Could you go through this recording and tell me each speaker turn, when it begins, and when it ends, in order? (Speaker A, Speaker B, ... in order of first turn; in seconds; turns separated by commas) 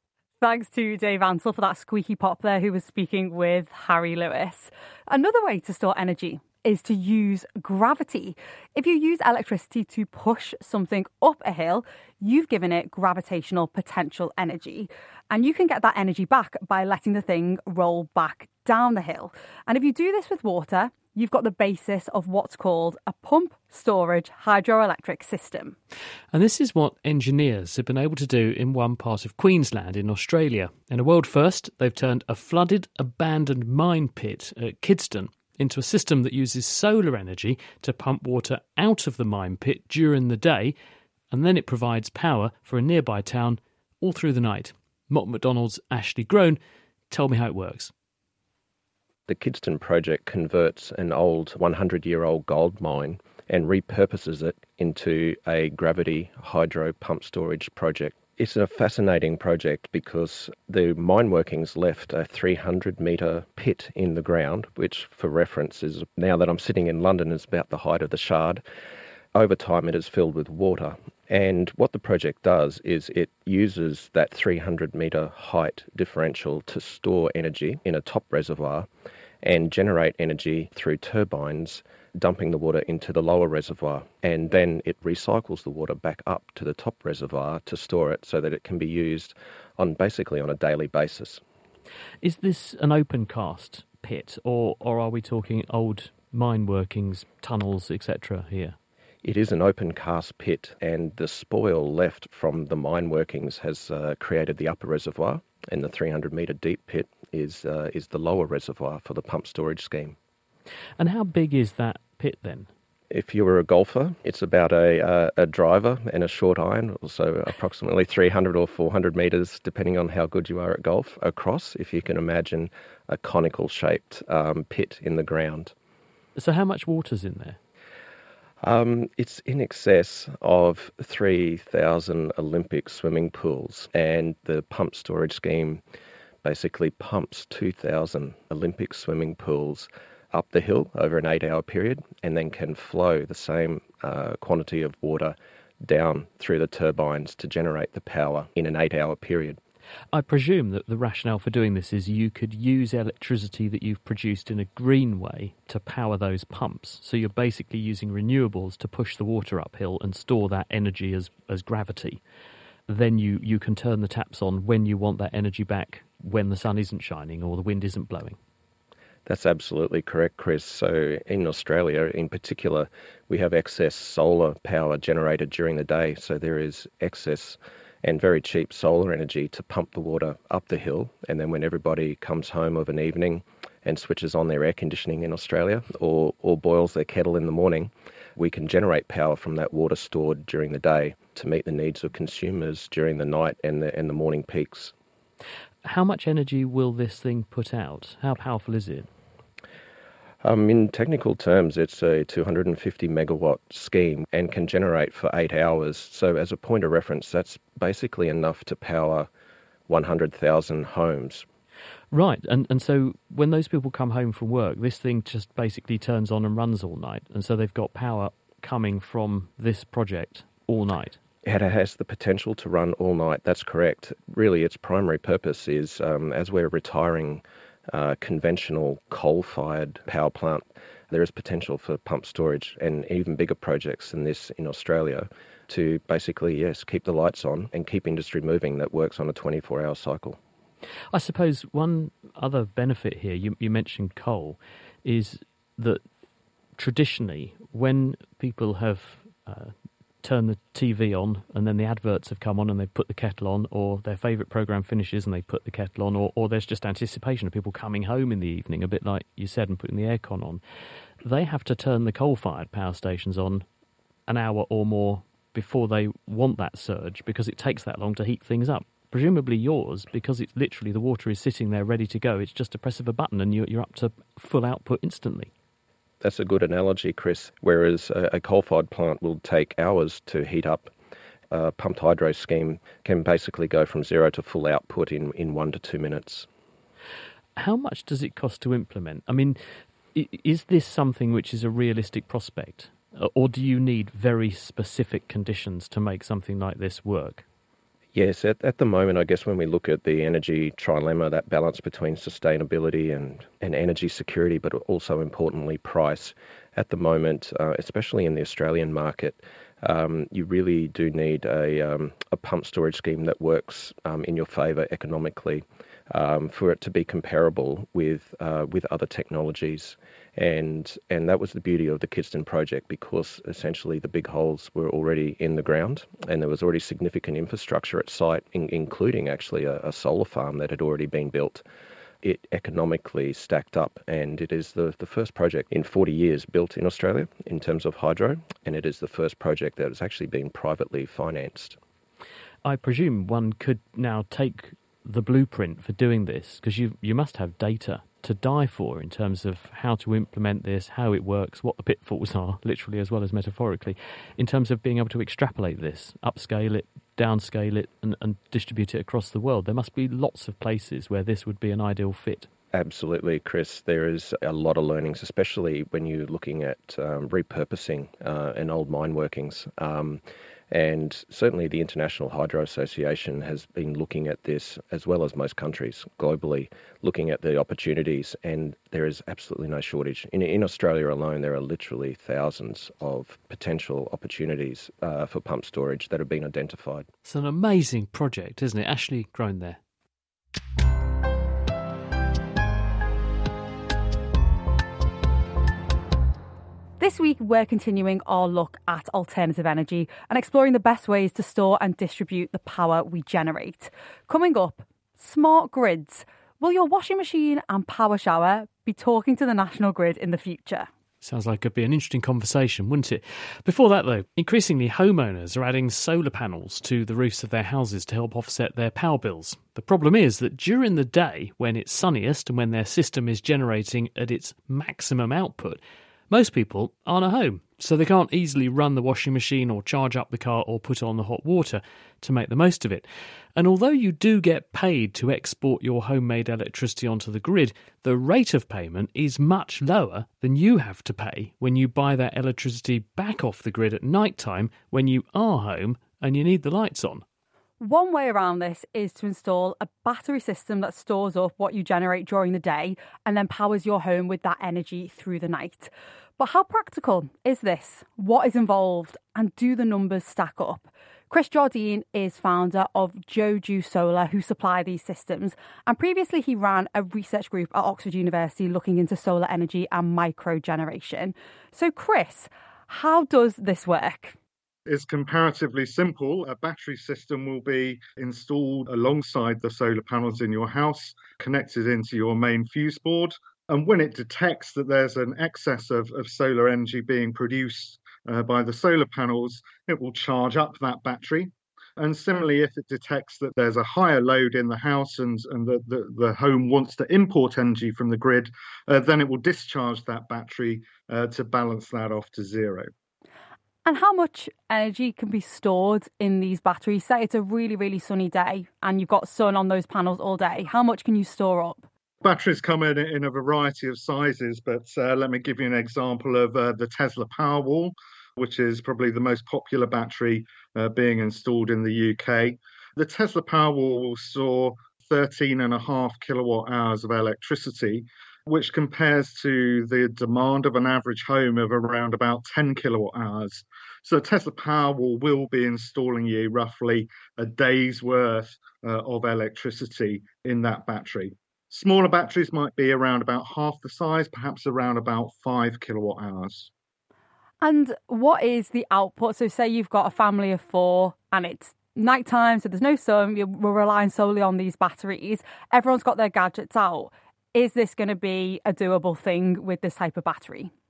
Speaker A: 0.4-25.8, Speaker B: 26.3-40.7, Speaker B: 41.3-46.6, Speaker B: 47.1-47.9, Speaker C: 49.3-68.6, Speaker C: 69.3-78.9, Speaker C: 79.4-91.4, Speaker B: 92.2-98.8, Speaker C: 99.2-110.2, Speaker B: 111.0-112.7, Speaker C: 113.1-125.7, Speaker B: 126.3-127.6, Speaker C: 128.6-135.8, Speaker C: 136.4-149.6, Speaker B: 150.1-162.2, Speaker B: 162.9-168.4, Speaker C: 169.2-194.9, Speaker B: 195.8-199.1, Speaker C: 200.4-209.3, Speaker C: 209.9-211.4, Speaker B: 212.1-221.2, Speaker C: 221.4-240.4, Speaker B: 241.1-246.0, Speaker B: 246.8-260.6, Speaker B: 261.2-263.6, Speaker B: 264.3-275.5, Speaker C: 276.2-280.9, Speaker C: 281.5-286.5, Speaker B: 287.6-289.6, Speaker B: 290.1-297.4, Speaker C: 298.1-331.6, Speaker C: 332.2-341.8, Speaker B: 342.6-362.5, Speaker C: 362.7-387.1, Speaker B: 387.2-389.8, Speaker A: 397.0-410.9, Speaker B: 411.2-447.2, Speaker A: 447.8-474.3, Speaker D: 474.9-502.9, Speaker A: 503.8-511.8, Speaker D: 512.2-546.7, Speaker A: 547.6-560.7